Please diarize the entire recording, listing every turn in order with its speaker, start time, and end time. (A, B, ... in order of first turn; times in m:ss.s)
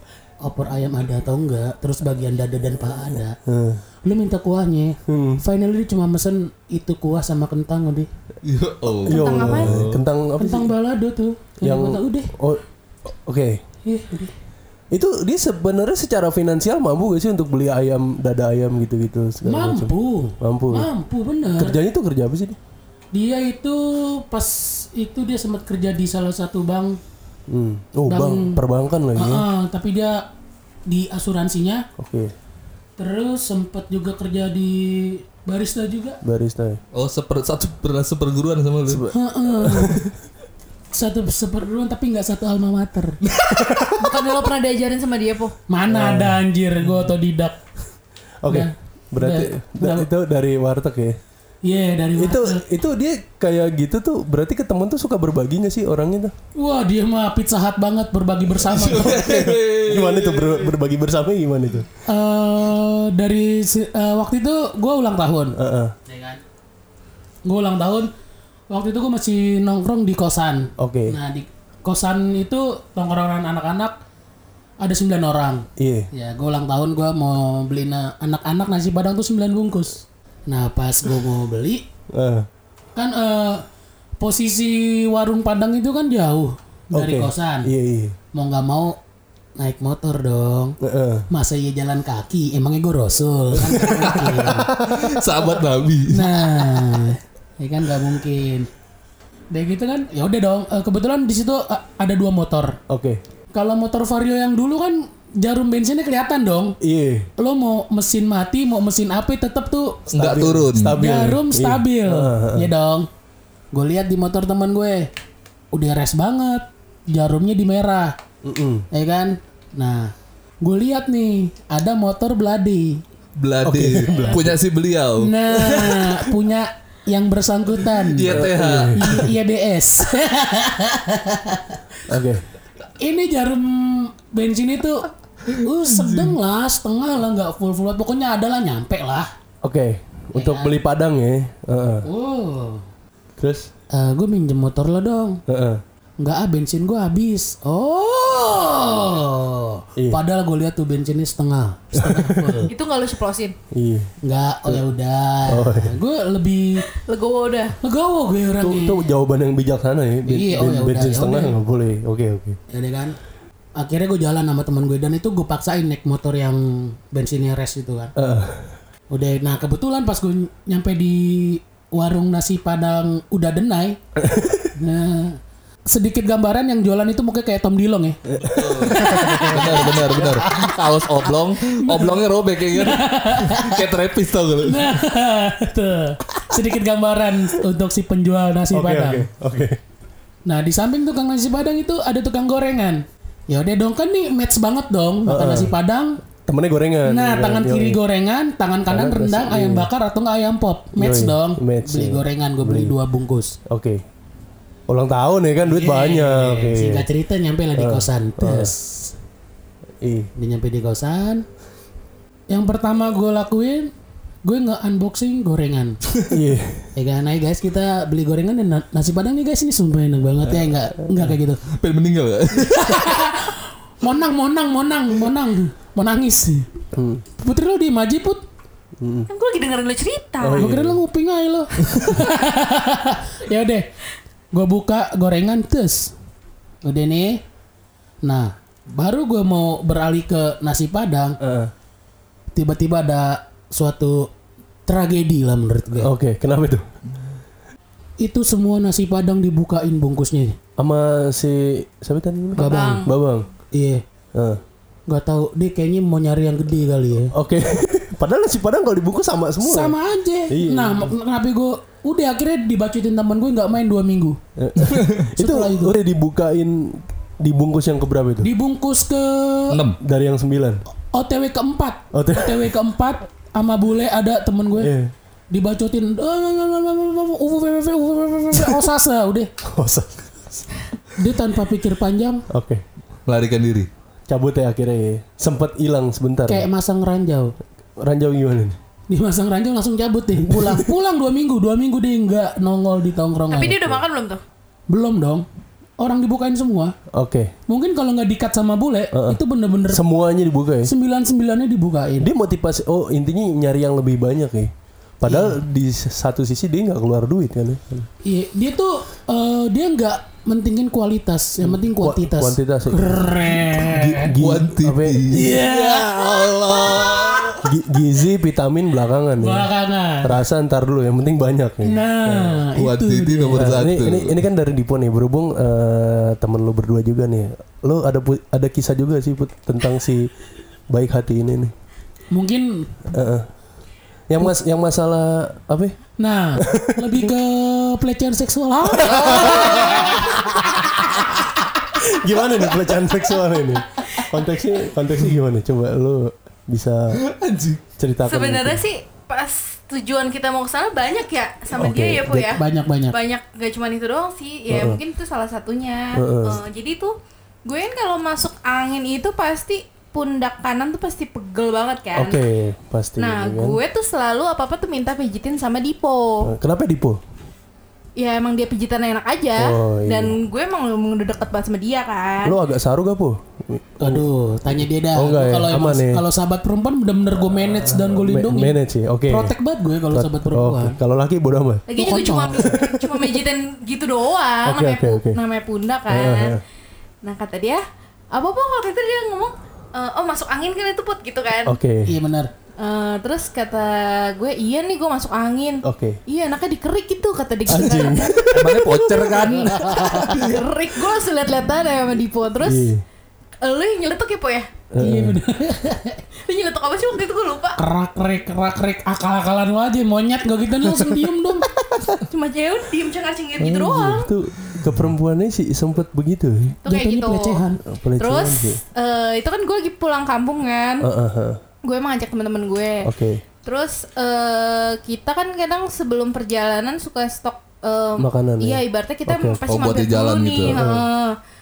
0:00.4-0:03.4 A
0:03.4-0:03.8 B
0:04.0-0:08.1 A
0:05.1-0:05.4 B
0:08.4-0:10.0 C
0:09.0-0:10.7 B
0:09.0-0:09.8 D
0:10.4-0:12.3 A
0:11.6-0:13.6 B
0:13.8-0:14.3 A
0:14.9-0:20.9 B
0:19.4-0:21.8 A
0:21.5-0:22.6 B
0:23.1-0:27.0 A
0:27.5-0:29.4 B
0:28.1-0:28.6 A
0:29.2-0:30.3 A
0:30.8-0:31.9 A
0:32.0-0:32.3 B
0:33.0-0:36.2 A
0:36.2-0:36.8 B
0:36.9-0:39.0 C
0:38.9-0:40.1 B
0:39.1-0:40.1 A
0:40.9-0:43.2 A
0:43.5-0:44.2 B
0:44.0-0:45.5 D
0:45.7-0:47.6 A
0:45.9-0:46.4 B
0:48.4-0:51.2 B
0:48.5-0:50.1 A
0:51.6-0:52.6 A
0:52.2-0:56.3 B
0:56.6-0:59.3 A
0:58.6-1:00.7 C
0:58.8-1:01.9 B
1:02.1-1:05.5 A
1:05.6-1:05.9 B
1:06.0-1:06.4 A
1:07.4-1:08.1 A
1:08.7-1:14.0 A
1:10.8-1:11.2 B
1:14.8-1:21.8 A
1:15.8-1:16.1 B
1:22.1-1:22.5 B
1:23.0-1:23.6 A
1:24.2-1:27.7 A
1:26.9-1:28.2 B
1:28.3-1:29.0 A
1:29.6-1:30.8 A
1:30.8-1:31.3 B
1:31.3-1:34.8 A
1:33.6-1:35.2 B
1:34.8-1:37.1 C
1:36.1-1:38.7 A
1:39.5-1:42.8 A
1:42.9-1:43.2 B
1:43.5-1:46.8 A
1:46.8-1:47.3 B
1:47.4-1:50.1 A
1:50.1-1:52.7 B
1:50.1-1:51.0 C
1:50.9-1:53.1 A
1:53.7-1:55.1 A
1:55.7-1:58.1 A
1:58.4-1:58.8 B
1:58.9-2:03.0 A
2:03.4-2:06.3 C
2:03.6-2:04.6 B
2:05.2-2:11.8 A
2:08.0-2:09.2 C
2:08.3-2:09.3 B
2:12.1-2:12.4 B
2:13.0-2:19.3 A
2:15.5-2:16.3 C
2:19.6-2:22.0 B
2:20.3-2:20.8 A
2:22.0-2:22.8 A
2:23.4-2:23.7 B
2:23.9-2:25.4 A
2:25.5-2:25.8 B
2:26.2-2:32.7 A
2:30.0-2:30.2 B
2:31.9-2:32.7 B
2:32.7-2:33.5 D
2:33.7-2:34.1 B
2:34.2-2:36.9 A
2:35.5-2:36.0 B
2:36.9-2:37.8 D
2:37.8-2:39.1 A
2:38.6-2:42.6 B
2:40.2-2:41.6 A
2:42.7-2:43.2 A
2:43.8-2:48.1 A
2:48.2-2:48.8 B
2:49.1-2:54.0 A
2:54.2-2:54.7 B
2:54.7-3:00.3 A
2:58.3-3:00.7 B
2:58.4-3:05.0 C
3:01.7-3:02.2 A
3:02.7-3:03.9 A
3:04.6-3:09.3 A
3:08.7-3:09.8 B
3:10.4-3:16.2 A
3:15.2-3:15.7 B
3:16.4-3:18.0 B
3:17.0-3:23.6 A
3:18.9-3:19.9 B
3:21.0-3:22.9 B
3:23.6-3:24.0 B
3:24.9-3:27.1 B
3:25.6-3:29.2 A
3:27.7-3:28.7 B
3:30.0-3:30.3 B
3:30.4-3:31.4 A
3:32.5-3:33.9 A
3:34.4-3:36.0 A
3:36.3-3:36.9 B
3:36.9-3:41.6 A
3:41.7-3:43.2 C
3:42.6-3:46.7 A
3:46.9-3:47.2 B
3:47.4-3:48.4 A
3:49.0-3:49.3 B
3:49.3-3:50.7 D
3:50.4-3:51.0 B
3:50.5-3:53.9 A
3:54.5-3:56.1 A
3:56.8-3:57.4 A
3:58.2-4:01.4 A
4:01.4-4:01.7 B
4:02.5-4:04.3 A
4:04.8-4:06.1 A
4:06.0-4:06.8 B
4:08.2-4:10.6 A
4:10.8-4:13.5 B
4:12.6-4:13.1 A
4:12.6-4:13.1 D
4:13.7-4:14.0 A
4:14.3-4:14.6 B
4:15.1-4:17.3 A
4:17.3-4:20.0 B
4:19.6-4:24.4 A
4:20.5-4:21.1 B
4:24.6-4:28.5 B
4:24.8-4:25.2 C
4:25.4-4:26.0 A
4:28.4-4:29.8 A
4:29.7-4:30.0 C
4:30.0-4:30.8 B
4:31.1-4:34.9 A
4:32.1-4:32.7 B
4:34.8-4:35.1 B
4:35.5-4:39.5 A
4:38.5-4:38.8 B
4:39.6-4:40.6 B
4:41.1-4:42.4 A
4:42.5-4:42.8 B
4:43.2-4:43.9 C
4:44.3-4:46.7 B
4:46.5-4:47.5 A
4:48.0-4:48.8 B
4:49.1-4:54.0 A
4:50.4-4:50.9 B
4:53.5-4:54.4 D
4:54.9-4:55.4 A
4:56.0-4:57.0 A
4:57.1-4:57.5 B
4:57.7-5:00.0 A
4:59.1-5:00.9 B
5:00.8-5:02.3 A
5:02.2-5:08.1 B
5:05.2-5:05.6 A
5:08.2-5:14.3 A
5:11.6-5:15.7 B
5:14.0-5:17.6 C
5:15.3-5:17.3 A
5:17.6-5:19.7 B
5:19.4-5:20.4 A
5:20.2-5:22.6 B
5:21.8-5:23.8 A
5:22.7-5:24.4 C
5:23.5-5:30.3 B
5:30.9-5:31.7 B
5:32.3-5:33.1 A
5:33.1-5:33.5 B
5:34.3-5:36.0 B
5:36.2-5:40.5 A
5:36.6-5:37.3 B
5:38.9-5:47.2 B
5:47.1-5:47.8 C
5:48.0-5:48.8 B
5:48.2-6:02.4 D
5:51.7-5:52.6 B
5:52.5-5:53.2 A
5:54.7-5:55.0 B
5:56.1-5:56.6 B
6:02.1-6:03.8 B
6:03.2-6:06.5 D
6:06.4-6:07.2 B
6:08.2-6:12.6 D
6:09.6-6:10.4 B
6:12.4-6:14.2 B
6:14.0-6:18.8 A
6:15.1-6:16.2 B
6:18.0-6:19.5 B
6:19.3-6:21.0 A
6:20.1-6:21.8 B
6:21.9-6:26.6 D
6:21.9-6:22.7 A
6:22.6-6:23.2 B
6:24.6-6:25.4 B
6:26.1-6:26.6 B
6:27.2-6:31.8 D
6:31.6-6:32.2 B
6:32.0-6:32.5 A
6:32.8-6:42.9 D
6:35.8-6:36.2 B
6:37.7-6:40.1 B
6:38.5-6:40.6 C
6:42.6-6:43.0 B
6:43.6-6:44.7 D
6:44.9-6:45.4 B
6:45.0-6:46.2 A
6:46.4-6:47.8 D
6:47.8-6:51.7 A
6:52.2-6:54.3 D
6:53.6-6:56.8 B
6:56.8-6:57.6 D
6:56.9-6:57.8 A
6:57.8-6:58.8 B
6:58.2-7:01.1 D
7:01.0-7:01.6 B
7:01.8-7:03.1 D
7:03.0-7:03.4 B
7:03.6-7:11.4 D
7:08.2-7:09.6 B
7:09.7-7:10.8 C
7:10.6-7:11.1 B